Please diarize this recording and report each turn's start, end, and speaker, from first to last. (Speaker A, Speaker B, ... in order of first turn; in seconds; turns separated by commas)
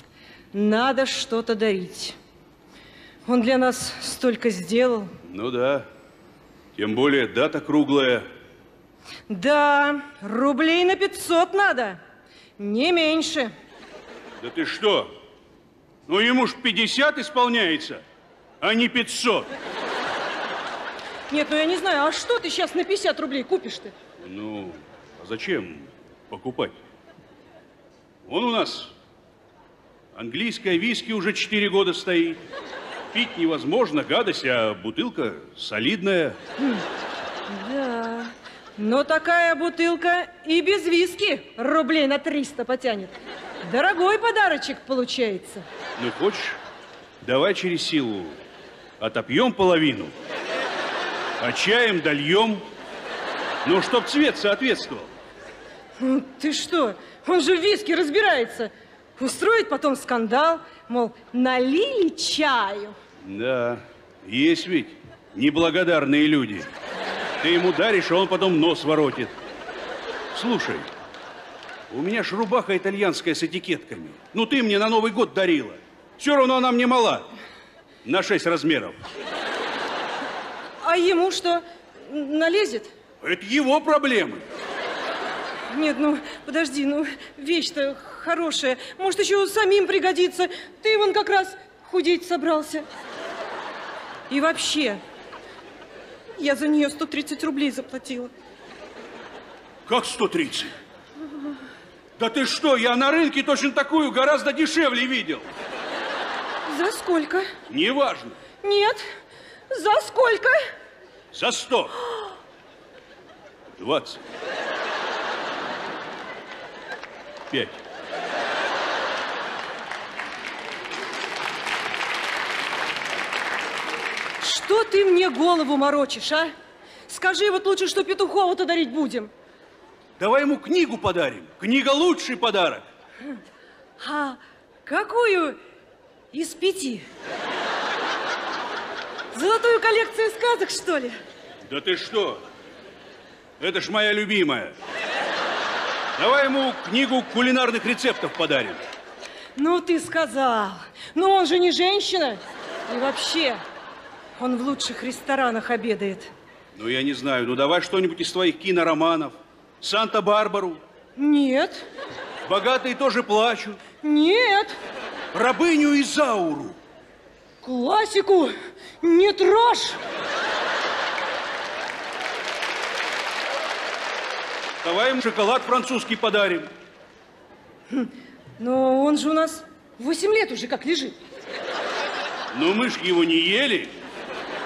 Speaker A: 0.5-2.2, Speaker A: 3.3-5.1, Speaker B: 5.2-5.9, Speaker B: 6.8-8.3, Speaker A: 9.3-12.0, Speaker A: 12.6-13.5, Speaker B: 14.4-15.1, Speaker B: 16.1-18.0, Speaker B: 18.6-19.5, Speaker A: 21.3-23.9, Speaker B: 24.2-26.8, Speaker B: 28.2-28.9, Speaker B: 30.1-32.4, Speaker B: 33.1-36.4, Speaker A: 37.5-45.6, Speaker B: 46.0-46.6, Speaker B: 47.2-48.4, Speaker B: 49.0-50.1, Speaker B: 51.4-52.6, Speaker B: 53.6-55.1, Speaker A: 56.0-63.0, Speaker B: 63.2-66.7, Speaker B: 67.4-69.3, Speaker B: 70.3-70.9, Speaker B: 71.9-77.3, Speaker B: 78.0-79.0, Speaker A: 80.8-82.9, Speaker B: 83.2-84.4, Speaker A: 85.7-92.9, Speaker A: 94.3-95.0, Speaker A: 96.4-98.3, Speaker B: 99.9-100.7, Speaker B: 102.2-105.5, Speaker A: 106.7-107.5, Speaker B: 107.7-108.4, Speaker A: 108.6-109.0, Speaker A: 109.7-110.7, Speaker B: 111.3-112.0, Speaker B: 113.8-114.2, Speaker B: 117.5-117.8, Speaker A: 124.4-126.5, Speaker A: 127.1-129.3, Speaker B: 130.2-132.8, Speaker A: 134.0-135.6, Speaker A: 136.3-137.1, Speaker A: 139.3-141.2, Speaker B: 141.7-142.4, Speaker B: 143.6-144.7, Speaker B: 146.2-148.8, Speaker A: 149.6-153.6, Speaker A: 154.4-156.3, Speaker B: 156.8-160.8, Speaker A: 161.2-161.8, Speaker B: 162.5-163.8, Speaker A: 164.0-164.8, Speaker B: 165.3-166.8, Speaker A: 167.6-170.0, Speaker B: 174.8-176.7, Speaker A: 177.9-181.2, Speaker B: 182.5-183.9